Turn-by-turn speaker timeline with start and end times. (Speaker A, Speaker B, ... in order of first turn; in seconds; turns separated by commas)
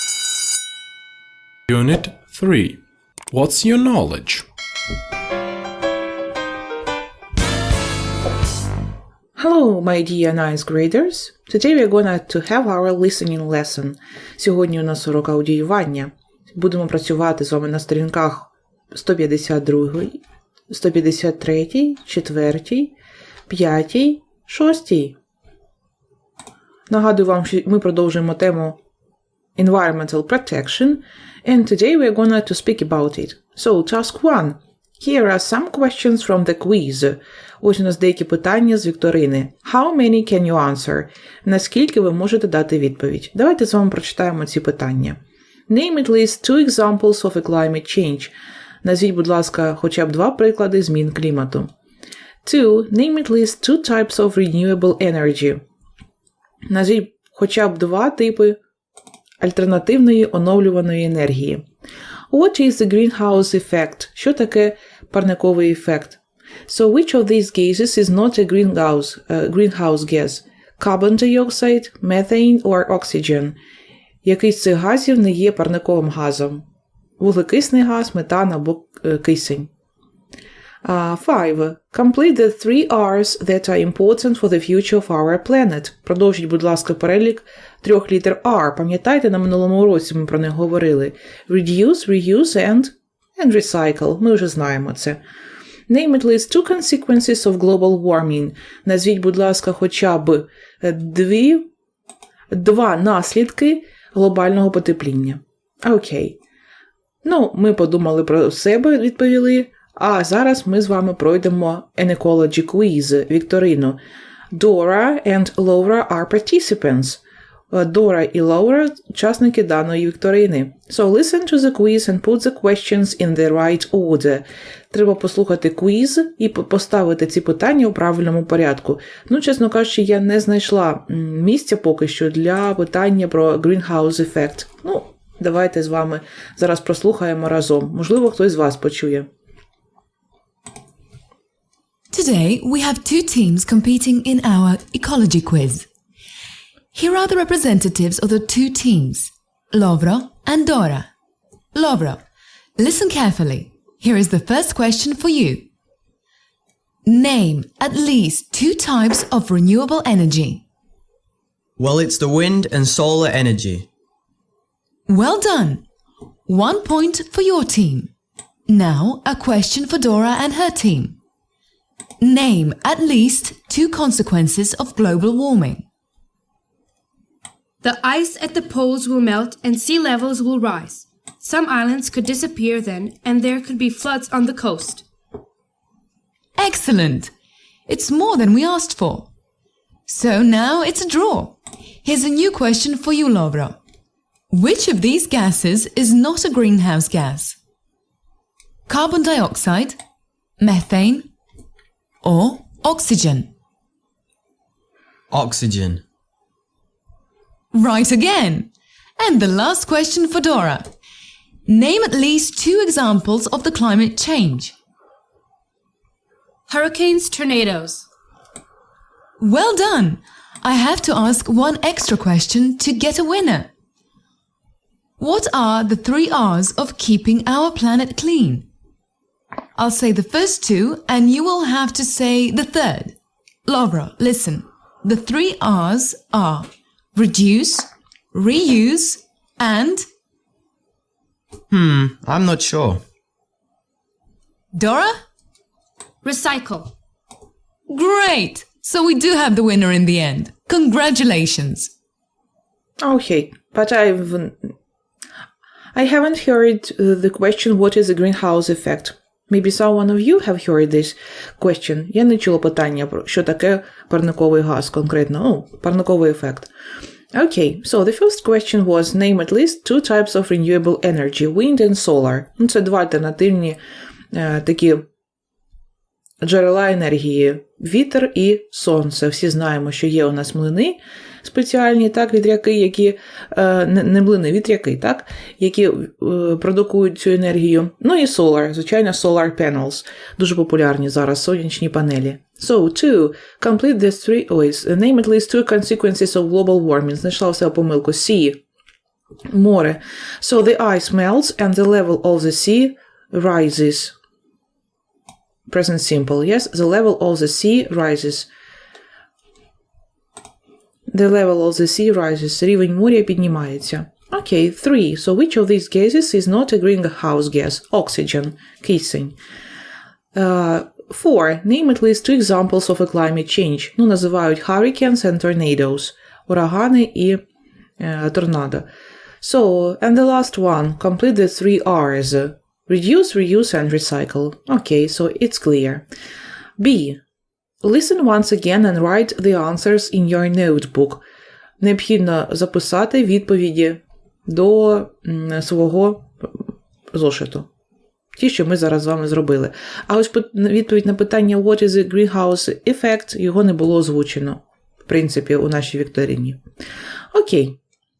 Speaker A: 1.7-4.5, Speaker B: 9.4-20.2, Speaker B: 20.7-22.9, Speaker B: 23.5-25.2, Speaker B: 26.9-28.8, Speaker B: 29.6-48.3, Speaker B: 48.8-51.7, Speaker B: 52.4-55.6, Speaker B: 56.7-58.6, Speaker B: 59.4-61.6, Speaker B: 62.3-73.6, Speaker B: 74.2-76.6, Speaker B: 77.2-79.7, Speaker B: 80.8-95.2, Speaker B: 95.9-101.7, Speaker B: 102.5-106.4, Speaker B: 107.2-114.0, Speaker B: 114.5-117.2, Speaker B: 117.7-139.3, Speaker C: 142.1-145.9, Speaker C: 146.9-151.1, Speaker C: 151.7-152.2, Speaker C: 152.8-155.7, Speaker C: 157.1-160.6, Speaker D: 161.8-163.9, Speaker C: 165.1-165.8, Speaker C: 166.5-168.1, Speaker C: 168.7-171.2, Speaker C: 172.2-175.8, Speaker E: 177.8-185.1, Speaker C: 186.6-187.3, Speaker C: 187.9-189.3, Speaker C: 190.1-193.8, Speaker C: 194.5-197.6, Speaker C: 198.9-200.0, Speaker C: 200.6-201.3, Speaker C: 202.2-203.5, Speaker D: 205.3-206.0, Speaker C: 207.7-210.9, Speaker C: 211.7-214.8, Speaker E: 216.7-218.1, Speaker C: 219.4-223.7, Speaker C: 225.2-228.7, Speaker C: 229.8-240.1, Speaker D: 241.7-243.0, Speaker C: 244.7-245.2, Speaker E: 246.2-246.9, Speaker C: 247.9-251.9, Speaker B: 253.0-254.7, Speaker B: 255.9-266.7, Speaker B: 267.3-273.8, Speaker B: 274.3-275.1, Speaker B: 276.4-298.6, Speaker B: 299.5-304.1, Speaker B: 305.7-308.5, Speaker B: 311.1-319.4, Speaker B: 320.3-327.4, Speaker B: 328.0-328.9, Speaker B: 329.4-336.1, Speaker B: 336.8-337.2, Speaker B: 337.8-341.2, Speaker B: 341.8-346.5, Speaker B: 347.1-347.7, Speaker B: 348.4-356.6, Speaker B: 357.3-357.8